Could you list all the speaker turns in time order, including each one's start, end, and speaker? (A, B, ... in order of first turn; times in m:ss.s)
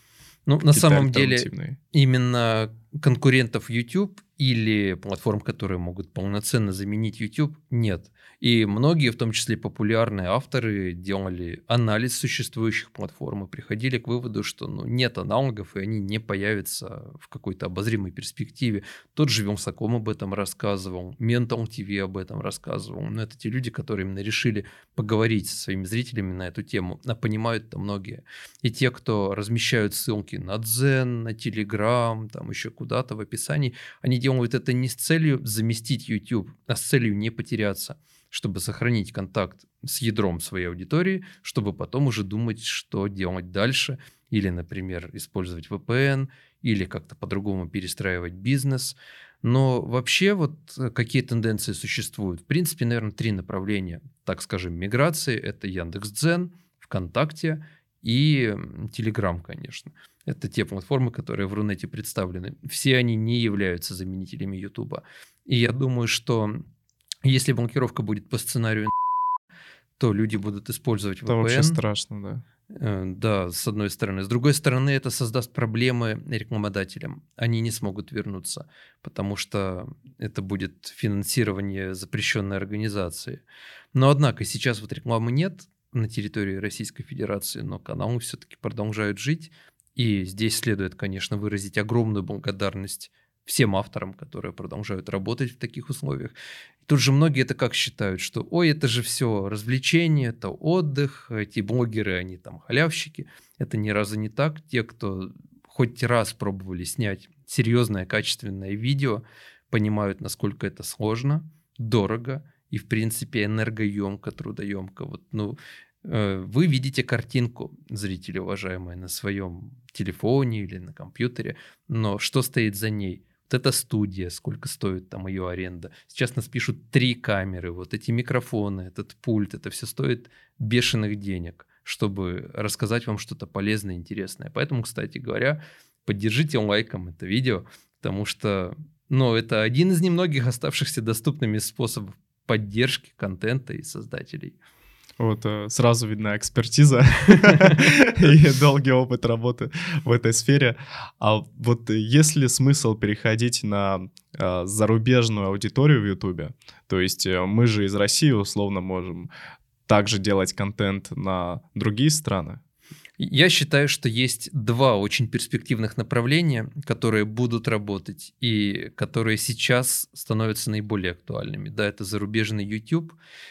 0:00.5-1:06.6 A
0:00.7-0:01.8 B
1:07.2-1:08.9 A
1:10.0-1:11.8 A
1:11.3-1:12.4 B
1:12.7-1:23.4 A
1:23.9-2:24.6 A
2:25.2-2:39.3 B
2:39.9-2:42.6 B
2:43.2-2:53.1 A